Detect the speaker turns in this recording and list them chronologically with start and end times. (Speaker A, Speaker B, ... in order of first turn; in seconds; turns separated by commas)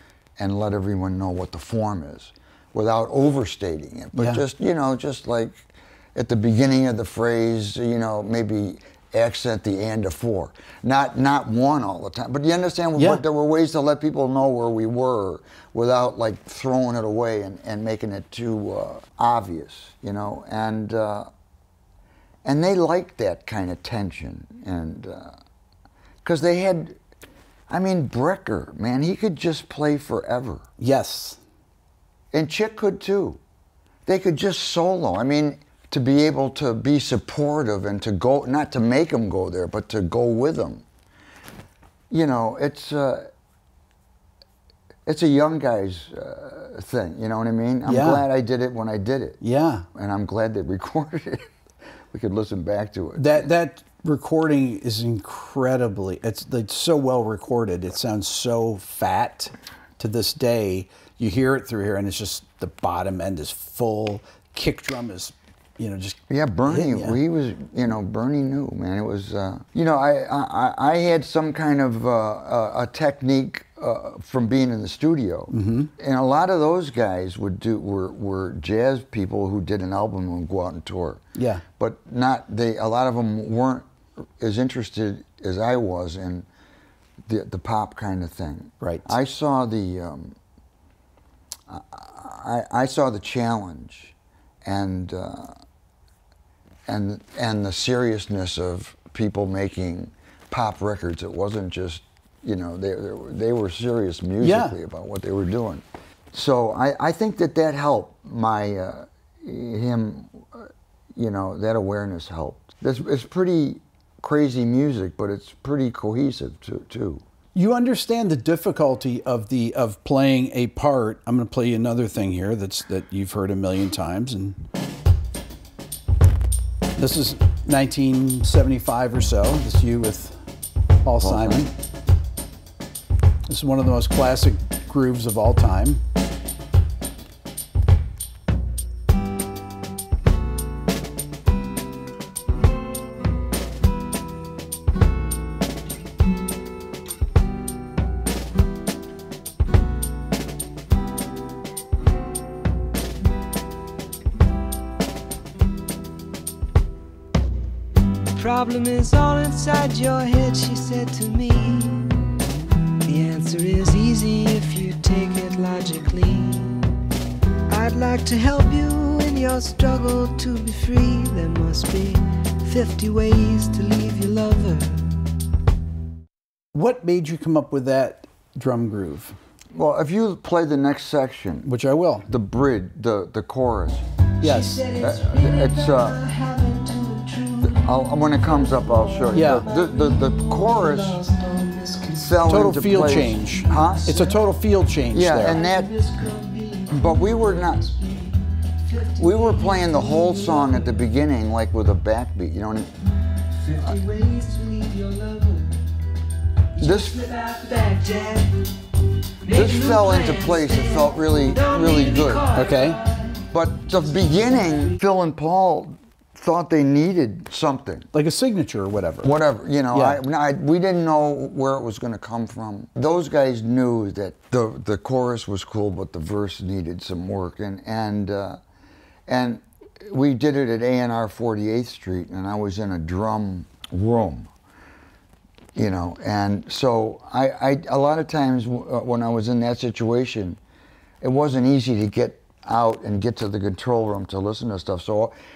Speaker A: 0.4-21.3, Speaker B: 4.1-4.4, Speaker B: 13.0-13.2, Speaker A: 22.4-25.4, Speaker A: 26.2-27.0, Speaker A: 27.7-30.6, Speaker B: 30.8-31.4, Speaker A: 32.3-33.4, Speaker A: 34.0-40.8, Speaker A: 42.1-43.3, Speaker A: 45.0-49.4, Speaker B: 47.8-48.2, Speaker B: 49.4-49.9, Speaker A: 49.9-51.5, Speaker A: 52.1-53.5, Speaker B: 53.1-67.2, Speaker A: 66.3-83.9, Speaker B: 75.5-75.9, Speaker B: 81.3-81.6, Speaker A: 84.4-86.5, Speaker A: 87.2-90.4, Speaker B: 88.8-89.1, Speaker A: 91.7-94.1, Speaker A: 94.6-95.5, Speaker A: 96.9-117.2, Speaker B: 104.4-104.8, Speaker B: 117.5-124.6, Speaker B: 127.0-130.4, Speaker B: 131.0-131.7, Speaker A: 131.2-131.7, Speaker B: 133.5-136.0, Speaker C: 158.3-162.2, Speaker C: 163.0-166.9, Speaker C: 167.7-175.1, Speaker B: 176.7-179.4, Speaker A: 179.7-181.7, Speaker B: 181.6-182.3, Speaker A: 182.3-184.0, Speaker B: 184.4-184.8, Speaker C: 184.4-194.4, Speaker A: 185.0-186.2, Speaker A: 187.6-191.2, Speaker B: 189.3-189.7, Speaker A: 192.2-194.2, Speaker B: 192.4-195.6, Speaker A: 195.1-195.9, Speaker C: 195.4-201.0, Speaker A: 196.9-197.9, Speaker A: 199.2-202.9, Speaker C: 203.6-205.9, Speaker C: 206.8-208.6, Speaker A: 206.8-207.2, Speaker C: 209.4-213.4, Speaker A: 209.5-212.5, Speaker B: 212.5-213.0, Speaker A: 213.5-218.1, Speaker B: 218.1-219.3, Speaker A: 219.2-228.6, Speaker B: 219.9-220.2, Speaker A: 229.3-234.5, Speaker A: 235.7-240.6, Speaker A: 241.2-245.3